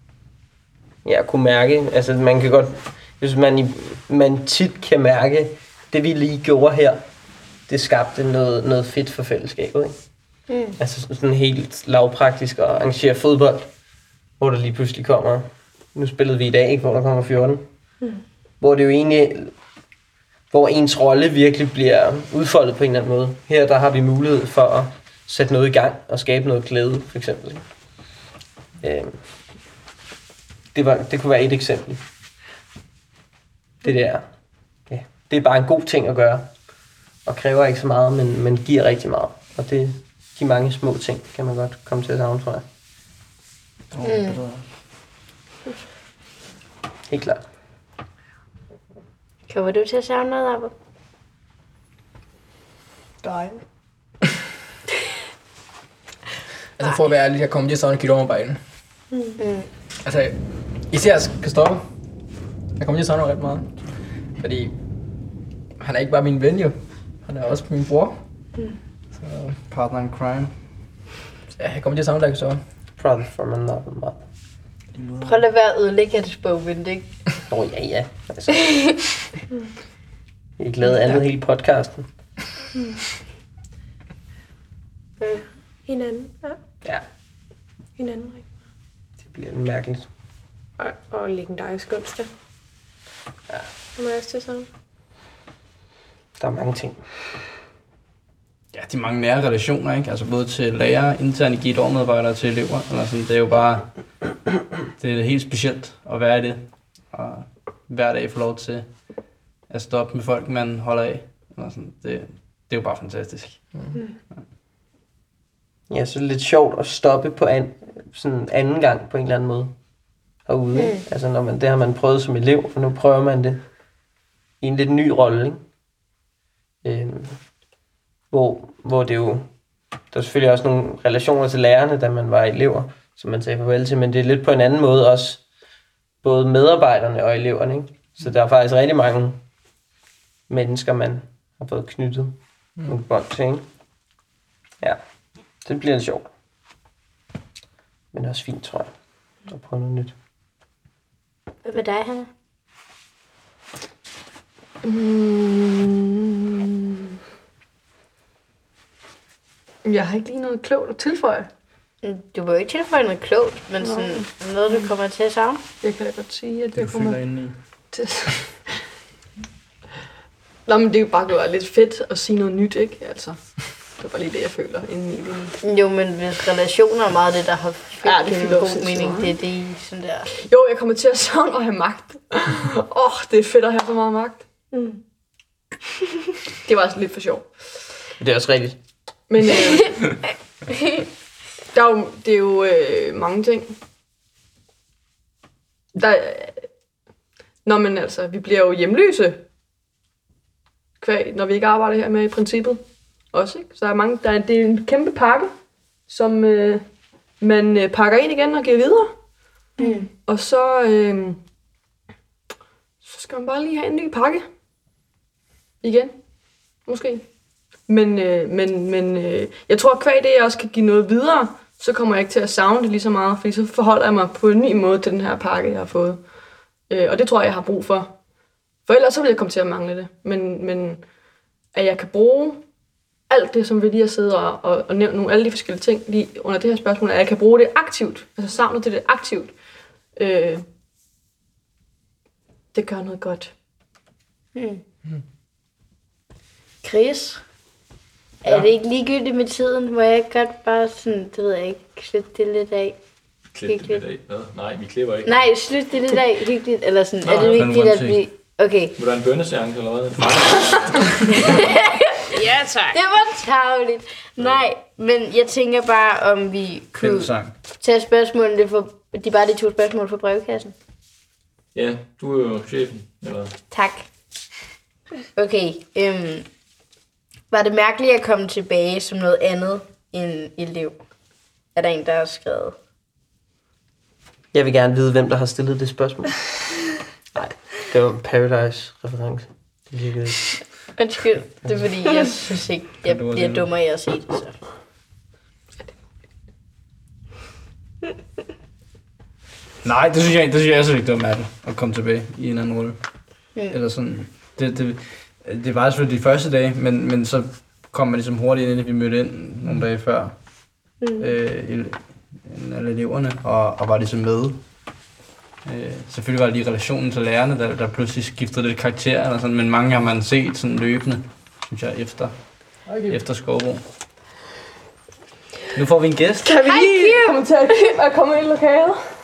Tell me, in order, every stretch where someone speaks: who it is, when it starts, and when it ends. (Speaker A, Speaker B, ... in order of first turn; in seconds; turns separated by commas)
Speaker A: 1.0-7.0, Speaker A: 7.7-10.0, Speaker B: 10.5-10.8, Speaker A: 10.8-13.7, Speaker A: 14.4-17.6, Speaker A: 18.6-19.5, Speaker A: 20.5-27.6, Speaker A: 28.8-29.2, Speaker A: 30.7-32.0, Speaker A: 33.8-34.2, Speaker A: 34.9-36.5, Speaker A: 37.2-42.6, Speaker C: 43.9-44.6, Speaker B: 44.0-44.4, Speaker A: 47.1-47.4, Speaker B: 49.5-50.7, Speaker B: 53.2-53.5, Speaker D: 56.8-58.6, Speaker B: 59.4-59.7, Speaker D: 60.0-60.4, Speaker D: 60.9-61.8, Speaker D: 62.8-63.7, Speaker D: 64.4-64.7, Speaker D: 65.8-68.2, Speaker D: 69.2-69.5, Speaker C: 69.7-70.5, Speaker D: 71.6-72.6, Speaker A: 73.0-74.2, Speaker C: 75.0-75.3, Speaker B: 75.2-77.1, Speaker A: 77.5-79.0, Speaker B: 78.7-78.9, Speaker A: 80.6-82.1, Speaker E: 85.9-86.6, Speaker E: 88.0-88.4, Speaker A: 89.2-90.1, Speaker E: 90.8-92.3, Speaker E: 94.0-94.7, Speaker A: 96.4-97.0, Speaker C: 98.7-103.9, Speaker C: 105.0-108.9, Speaker C: 109.7-113.6, Speaker A: 115.9-119.7, Speaker A: 120.5-123.6, Speaker A: 124.6-125.6, Speaker A: 126.8-127.4, Speaker A: 128.3-129.5, Speaker A: 130.1-135.4, Speaker A: 136.2-139.4, Speaker A: 140.5-143.6, Speaker A: 145.6-146.3, Speaker A: 148.1-148.9, Speaker A: 149.5-150.1, Speaker B: 151.6-152.3, Speaker F: 154.8-156.9, Speaker F: 159.8-161.5, Speaker B: 162.0-165.6, Speaker F: 163.8-164.3, Speaker F: 165.8-167.2, Speaker C: 166.8-167.5, Speaker F: 167.9-168.8, Speaker F: 170.7-173.4, Speaker F: 173.9-175.6, Speaker B: 175.6-180.3, Speaker F: 178.0-179.3, Speaker F: 180.5-184.4, Speaker E: 184.7-185.0, Speaker F: 186.6-187.5, Speaker A: 188.2-188.8, Speaker F: 189.3-190.1, Speaker F: 191.7-193.8, Speaker F: 195.9-196.7, Speaker F: 197.6-199.4, Speaker F: 201.0-205.5, Speaker F: 206.1-206.8, Speaker F: 207.4-209.2, Speaker B: 209.8-210.1, Speaker F: 210.2-211.4, Speaker F: 213.0-214.5, Speaker F: 215.8-216.2, Speaker F: 216.8-217.2, Speaker F: 217.9-226.2, Speaker F: 226.9-228.1, Speaker F: 228.8-231.0, Speaker F: 231.7-232.6, Speaker F: 233.3-239.5, Speaker F: 240.2-240.6, Speaker F: 242.7-243.5, Speaker B: 244.5-244.8, Speaker B: 246.8-247.4, Speaker B: 248.4-253.0, Speaker G: 253.5-255.4, Speaker B: 253.7-254.0, Speaker B: 255.2-258.9, Speaker G: 257.2-257.6, Speaker C: 257.3-258.2, Speaker G: 258.9-261.5, Speaker B: 261.3-270.7, Speaker E: 262.4-262.9, Speaker C: 266.9-267.5, Speaker G: 271.7-273.5, Speaker B: 273.7-274.1, Speaker B: 275.4-276.5, Speaker B: 277.5-281.0, Speaker B: 281.7-282.7, Speaker A: 284.5-286.6, Speaker A: 287.3-290.5, Speaker B: 291.0-294.5, Speaker C: 293.1-293.7, Speaker C: 299.8-303.0, Speaker C: 303.7-310.3, Speaker E: 311.0-311.3, Speaker C: 311.2-314.6, Speaker C: 315.6-322.3, Speaker D: 322.9-323.1, Speaker C: 323.1-323.8, Speaker C: 325.7-326.5, Speaker F: 326.4-329.0, Speaker B: 326.6-327.4